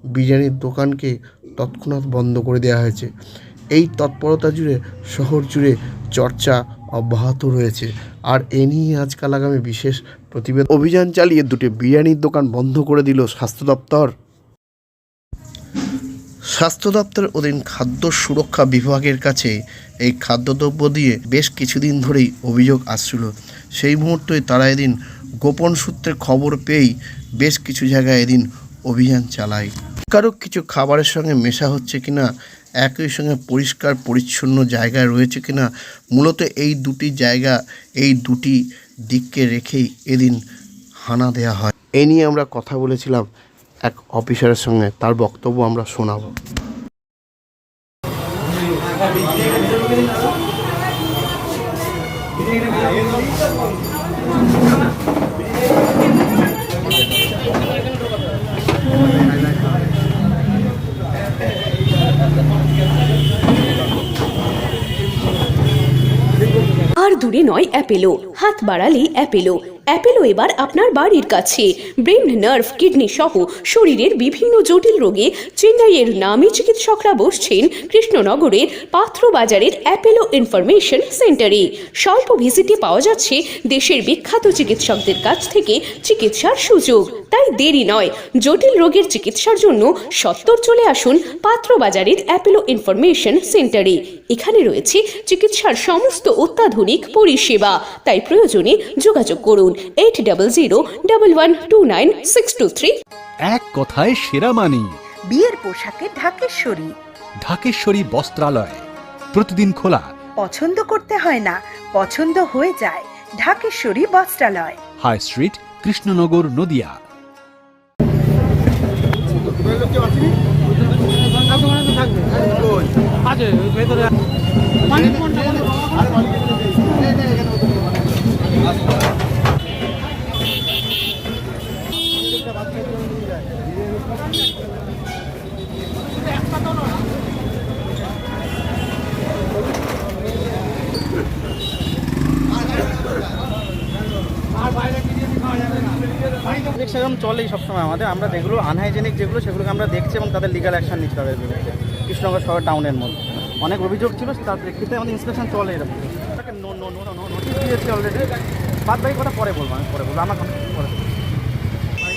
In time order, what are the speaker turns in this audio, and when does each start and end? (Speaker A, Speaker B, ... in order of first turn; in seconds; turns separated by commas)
Speaker A: 0.1-3.1, Speaker A: 3.7-14.1, Speaker A: 16.5-32.3, Speaker A: 32.8-40.4, Speaker A: 41.0-43.3, Speaker A: 43.9-46.3, Speaker B: 67.0-102.9, Speaker C: 103.5-105.0, Speaker D: 105.3-107.0, Speaker C: 107.4-110.1, Speaker D: 110.4-114.8, Speaker C: 115.0-117.0, Speaker C: 125.1-125.6, Speaker E: 146.7-158.3, Speaker E: 158.8-161.1